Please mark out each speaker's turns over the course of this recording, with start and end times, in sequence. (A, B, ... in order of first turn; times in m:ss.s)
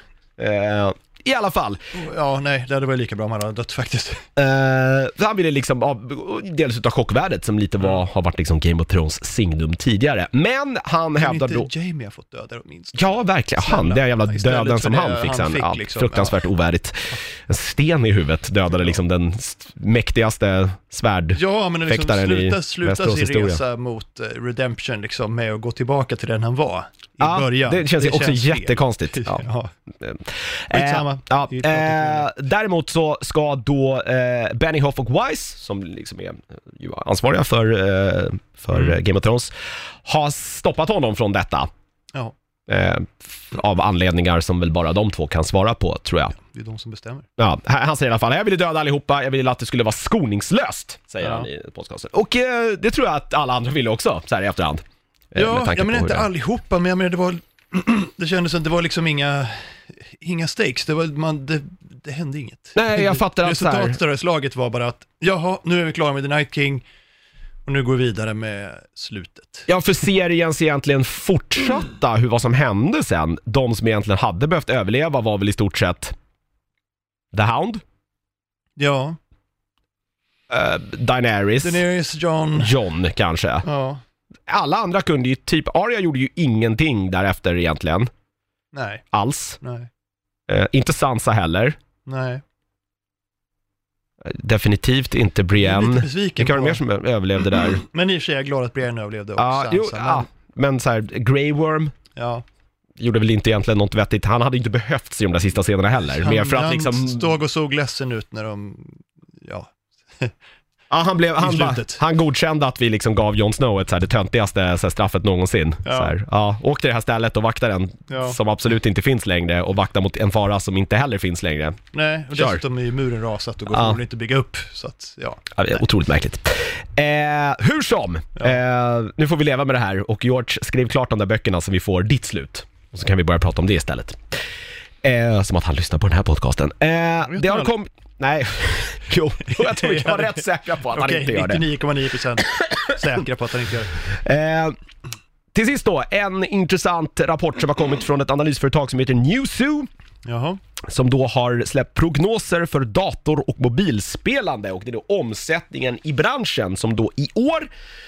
0:00.4-0:01.8 A
0:01.9-0:04.2 B
0:04.4-0:11.7 A
0:11.2-0:13.0 B
0:12.9-0:23.6 A
0:13.6-0:16.4 B
0:21.3-0:29.7 B
0:27.2-0:29.4 A
0:30.0-0:39.5 A
0:30.7-0:32.3 B
0:40.0-0:41.7 A
0:42.7-0:46.3 A
0:46.4-0:47.3 B
0:47.4-0:56.3 A
0:51.2-0:51.5 B
0:55.3-1:06.8 B
1:02.8-1:04.0 A
1:07.6-1:09.7 B
1:09.7-1:16.1 A
1:17.3-1:17.8 A
1:18.8-1:19.2 B
1:20.5-1:21.8 A
1:21.6-1:22.7 B
1:22.6-1:23.6 A
1:23.6-1:24.0 B
1:24.5-1:28.1 A
1:28.7-1:29.0 B
1:29.1-1:29.6 A
1:29.6-1:29.9 B
1:30.5-1:31.8 A
1:32.0-1:32.4 B
1:34.2-1:37.8 A
1:35.5-1:36.8 B
1:37.8-1:40.3 B
1:39.4-1:41.9 A
1:42.2-1:42.4 B
1:43.0-1:47.3 A
1:46.2-1:50.3 B
1:50.9-2:01.8 A
1:51.4-1:52.0 B
1:55.8-1:56.1 B
1:58.1-1:58.4 B
2:01.9-2:05.4 B
2:02.3-2:02.6 A
2:03.7-2:04.0 A
2:05.5-2:14.4 A
2:15.0-2:21.6 A
2:17.2-2:17.7 B
2:19.4-2:24.0 B
2:22.4-2:23.0 A
2:24.0-2:24.8 A
2:25.5-2:29.9 A
2:30.2-2:30.6 B
2:30.9-2:37.7 A